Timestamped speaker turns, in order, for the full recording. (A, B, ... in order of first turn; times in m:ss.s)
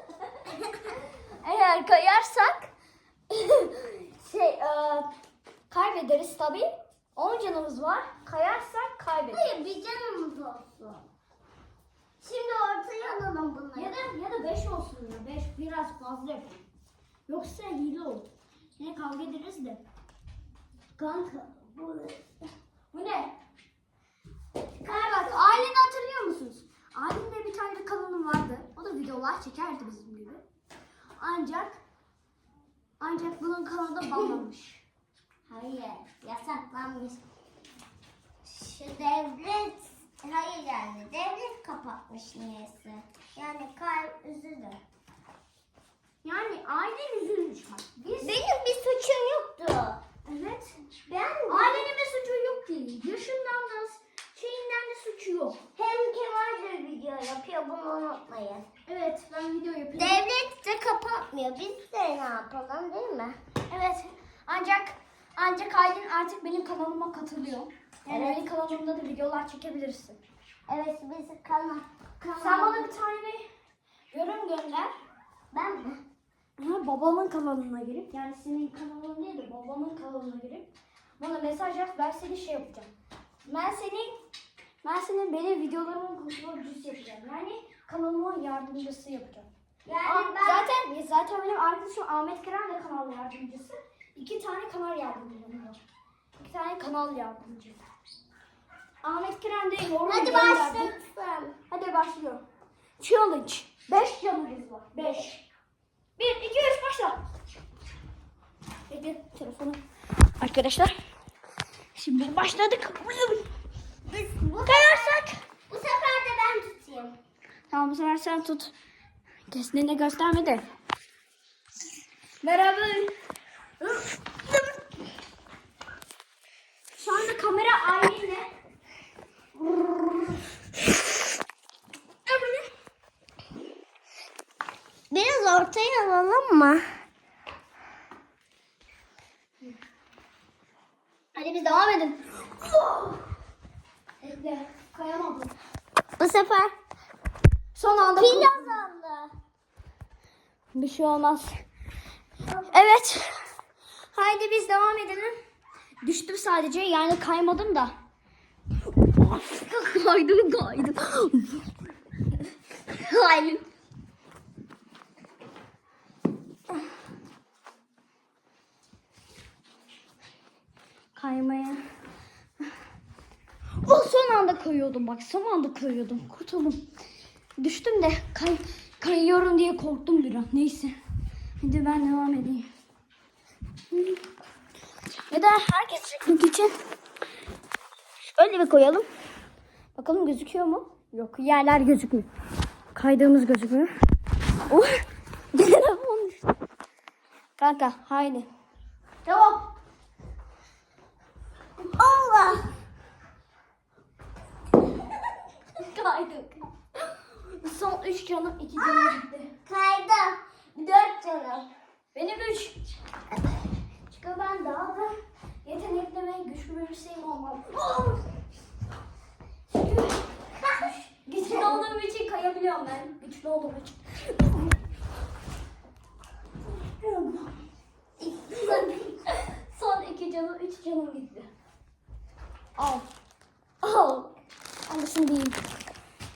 0:01.3-0:02.7 A
0:03.3-0:05.1 A
0:05.7-0:09.5 A
0:09.3-0:11.0 B
0:12.2-0:14.0 B
0:13.7-0:16.6 A
0:17.3-0:19.8 A
0:21.0-0:22.2 A
0:22.9-0:23.4 A
0:24.8-0:30.4 A
0:24.8-0:25.5 B
0:31.2-0:31.8 A
0:33.0-0:34.8 A
0:34.0-0:34.4 B
0:35.5-0:37.2 B
0:38.4-0:44.8 B
0:46.2-0:48.4 A
0:48.2-0:50.0 B
0:50.2-0:50.8 A
0:51.1-0:51.9 B
0:51.5-0:55.6 A
0:55.8-0:58.7 B
0:58.9-1:00.2 A
1:00.0-1:03.4 B
1:03.7-1:10.2 A
1:08.1-1:08.4 B
1:10.7-1:12.9 B
1:12.4-1:13.5 A
1:14.1-1:14.9 A
1:15.5-1:16.0 B
1:16.6-1:20.7 A
1:21.2-1:22.9 A
1:23.4-1:24.1 A
1:24.8-1:29.5 A
1:29.9-1:30.7 B
1:30.0-1:35.8 A
1:36.4-1:37.8 A
1:39.0-1:41.0 A
1:40.1-1:41.6 B
1:41.7-1:42.4 A
1:43.0-1:45.4 A
1:46.2-1:47.2 A
1:48.9-1:49.8 A
1:50.4-1:50.9 A
1:52.0-1:53.5 A
1:54.1-1:57.2 B
1:54.7-1:55.4 A
1:57.7-1:58.7 A
1:59.5-2:00.6 A
2:02.4-2:03.1 A
2:03.8-2:04.6 A
2:06.9-2:08.5 A
2:09.6-2:10.3 A
2:12.3-2:12.7 A
2:15.1-2:16.8 B
2:21.4-2:23.2 A
2:24.2-2:25.5 A
2:26.2-2:26.7 B
2:27.8-2:28.7 A
2:28.0-2:29.3 B
2:30.7-2:31.6 A
2:32.7-2:33.4 A
2:34.1-2:35.3 A
2:36.0-2:37.9 A
2:39.0-2:41.7 A
2:42.9-2:43.6 A
2:51.2-2:51.8 A
2:53.8-2:56.8 A
2:57.6-3:01.0 A
3:01.6-3:02.7 A
3:05.3-3:06.7 A
3:08.4-3:09.1 A
3:10.0-3:12.3 A
3:12.9-3:13.9 A
3:14.7-3:15.0 A
3:15.5-3:16.4 A
3:17.6-3:18.5 A
3:19.3-3:19.6 A
3:22.0-3:22.7 B
3:25.8-3:29.5 A
3:28.8-3:31.7 B
3:32.2-3:32.8 A
3:34.1-3:38.3 A
3:39.7-3:44.8 A
3:40.6-3:40.9 B
3:41.4-3:41.8 B
3:46.8-3:47.6 A
3:48.4-3:49.0 B
3:48.4-3:51.5 A
3:52.8-3:53.1 A
3:53.8-3:54.3 A
3:54.9-3:55.6 A